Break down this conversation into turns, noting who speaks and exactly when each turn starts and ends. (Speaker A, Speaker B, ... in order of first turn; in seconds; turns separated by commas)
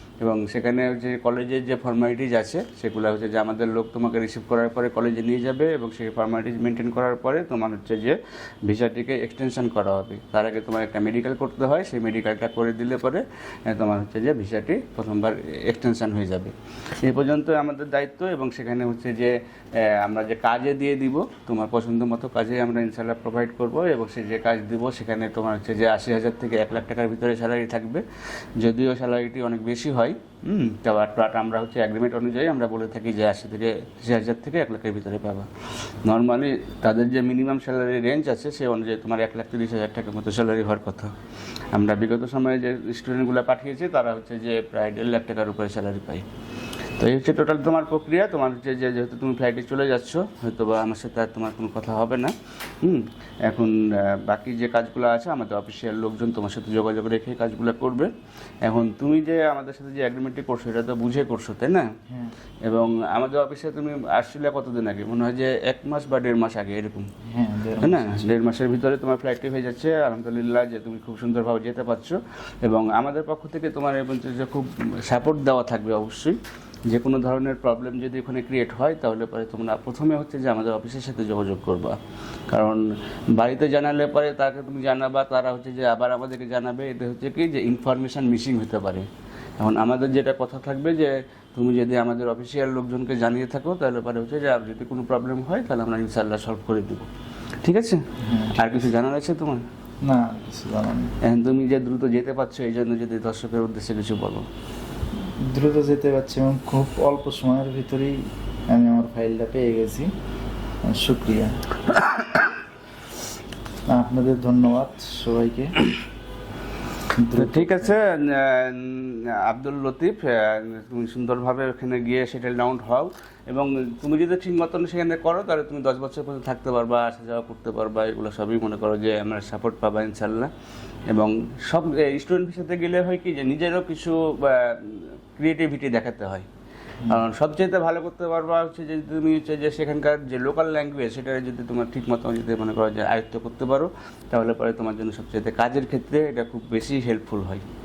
Speaker A: 0.2-28.0, Speaker A: 28.6-35.5, Speaker A: 36.0-41.1, Speaker A: 41.7-46.2, Speaker A: 47.0-58.1, Speaker A: 58.6-61.9, Speaker A: 62.6-67.1, Speaker B: 67.2-68.1, Speaker A: 67.8-82.0, Speaker A: 82.5-89.1, Speaker A: 89.6-97.1, Speaker A: 97.6-99.6, Speaker B: 98.2-98.7, Speaker B: 100.0-101.1, Speaker A: 101.2-104.5, Speaker B: 105.5-110.1, Speaker B: 110.8-111.6, Speaker B: 113.9-115.8, Speaker B: 117.2-117.9, Speaker A: 117.3-130.5, Speaker A: 131.1-136.5, Speaker A: 137.1-147.6